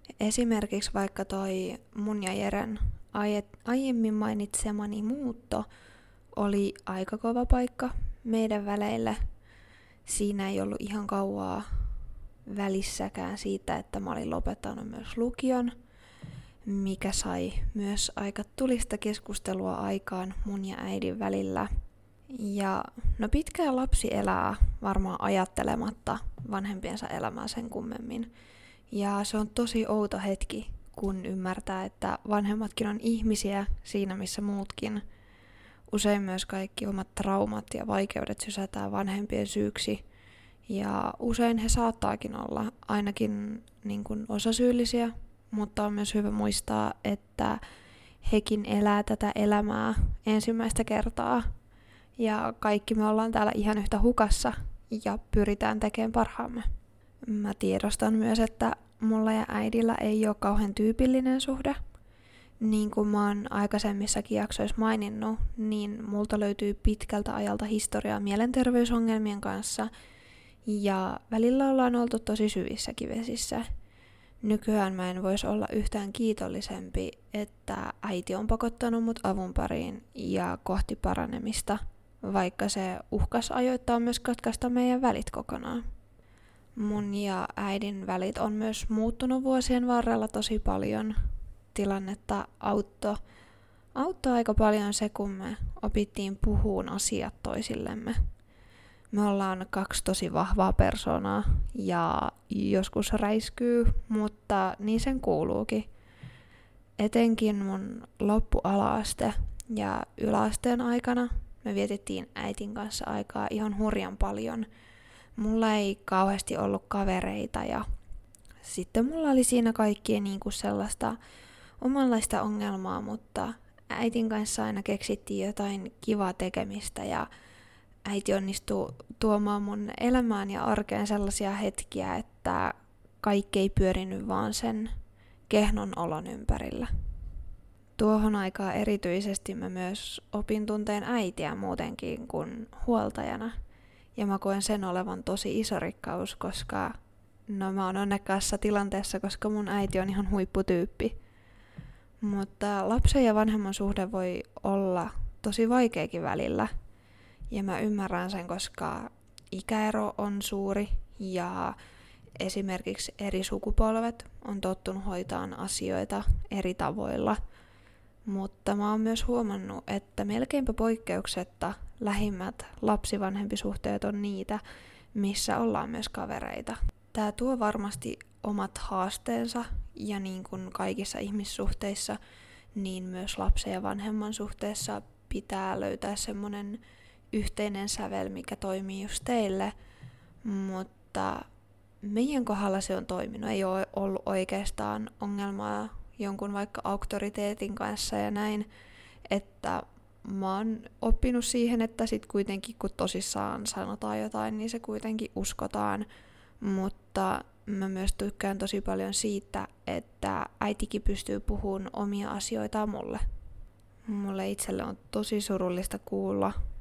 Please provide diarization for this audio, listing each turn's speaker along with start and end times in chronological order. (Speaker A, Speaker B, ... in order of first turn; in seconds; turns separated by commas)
Speaker A: 0.2-5.7, Speaker A: 6.4-9.2, Speaker A: 10.1-11.9, Speaker A: 12.5-15.8, Speaker A: 16.6-21.7, Speaker A: 22.3-28.3, Speaker A: 28.9-35.0, Speaker A: 35.9-40.0, Speaker A: 40.7-47.6, Speaker A: 48.2-51.5, Speaker A: 52.2-56.7, Speaker A: 57.3-61.8, Speaker A: 62.6-69.9, Speaker A: 70.7-73.7, Speaker A: 74.4-85.8, Speaker A: 86.8-91.2, Speaker A: 91.7-93.2, Speaker A: 94.0-98.2, Speaker A: 99.1-105.9, Speaker A: 107.0-114.7, Speaker A: 115.4-117.8, Speaker A: 118.6-121.2, Speaker A: 121.8-127.3, Speaker A: 128.1-134.9, Speaker A: 135.5-136.9, Speaker A: 138.0-143.6, Speaker A: 144.2-147.0, Speaker A: 147.5-151.2, Speaker A: 152.2-156.7, Speaker A: 157.5-161.8, Speaker A: 162.4-167.4, Speaker A: 168.3-174.6, Speaker A: 175.1-182.2, Speaker A: 182.8-186.8, Speaker A: 187.3-189.7, Speaker A: 190.4-191.5, Speaker A: 192.0-198.7, Speaker A: 199.3-206.1, Speaker A: 206.6-213.2, Speaker A: 214.1-216.6